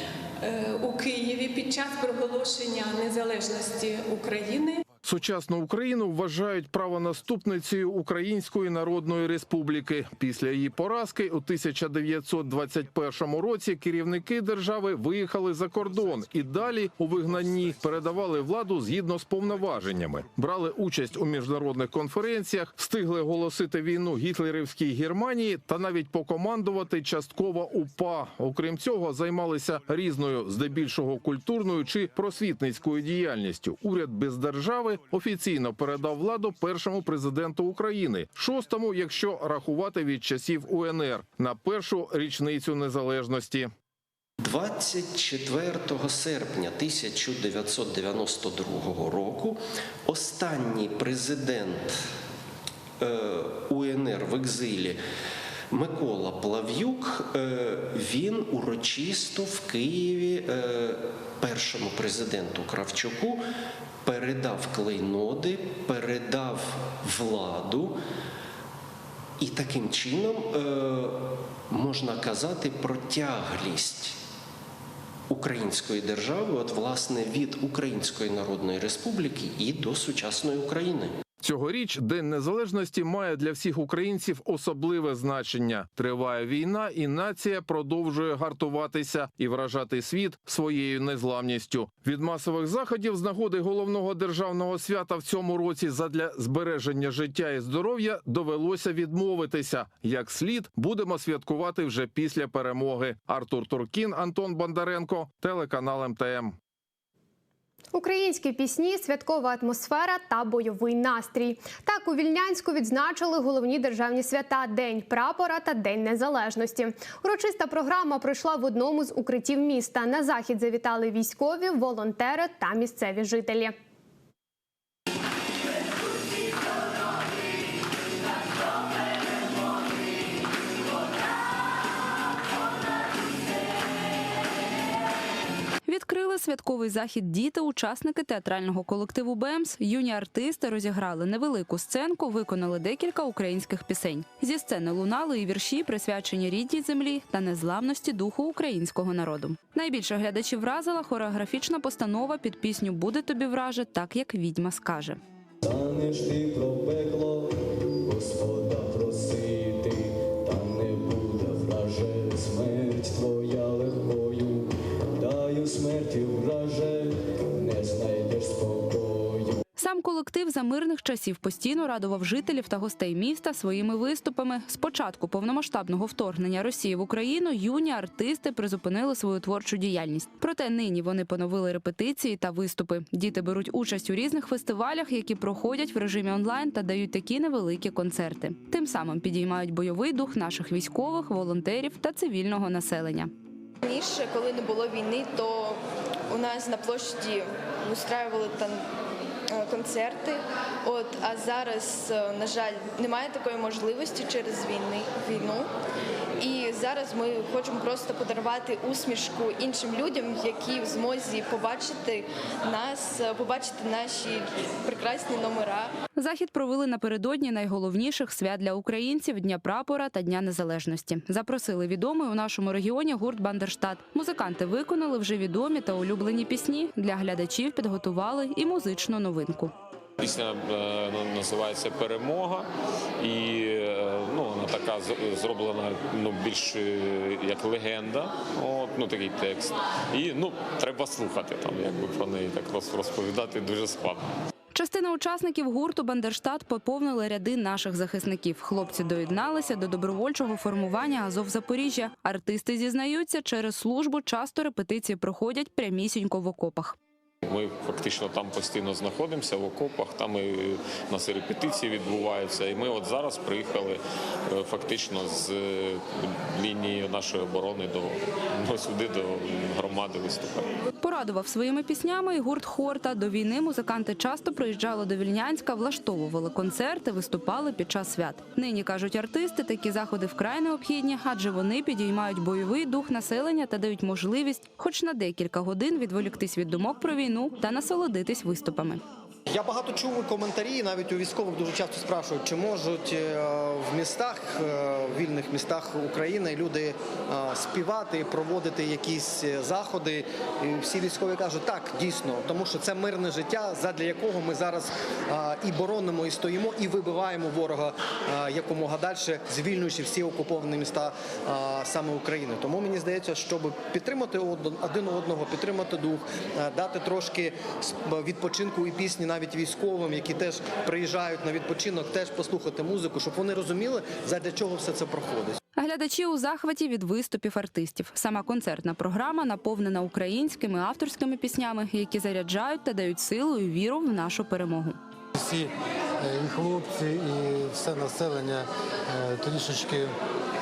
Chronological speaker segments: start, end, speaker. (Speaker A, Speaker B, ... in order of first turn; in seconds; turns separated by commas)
Speaker A: 0.4-4.8, Speaker B: 5.0-43.7, Speaker C: 44.4-52.0, Speaker C: 53.0-55.0, Speaker C: 55.7-63.4, Speaker C: 64.0-68.0, Speaker C: 69.4-74.2, Speaker C: 75.3-81.1, Speaker B: 81.4-106.6, Speaker D: 107.9-123.7, Speaker E: 135.9-155.2, Speaker F: 155.6-157.4, Speaker F: 158.1-164.7, Speaker F: 165.2-169.5, Speaker E: 169.8-193.3, Speaker G: 193.8-198.8, Speaker G: 199.5-205.7, Speaker G: 206.4-215.9, Speaker E: 216.2-229.7, Speaker H: 230.2-232.7, Speaker H: 233.2-244.2, Speaker E: 244.7-257.0, Speaker H: 257.4-270.7, Speaker E: 271.0-289.0, Speaker I: 289.5-325.6, Speaker E: 325.8-335.0, Speaker J: 335.4-340.1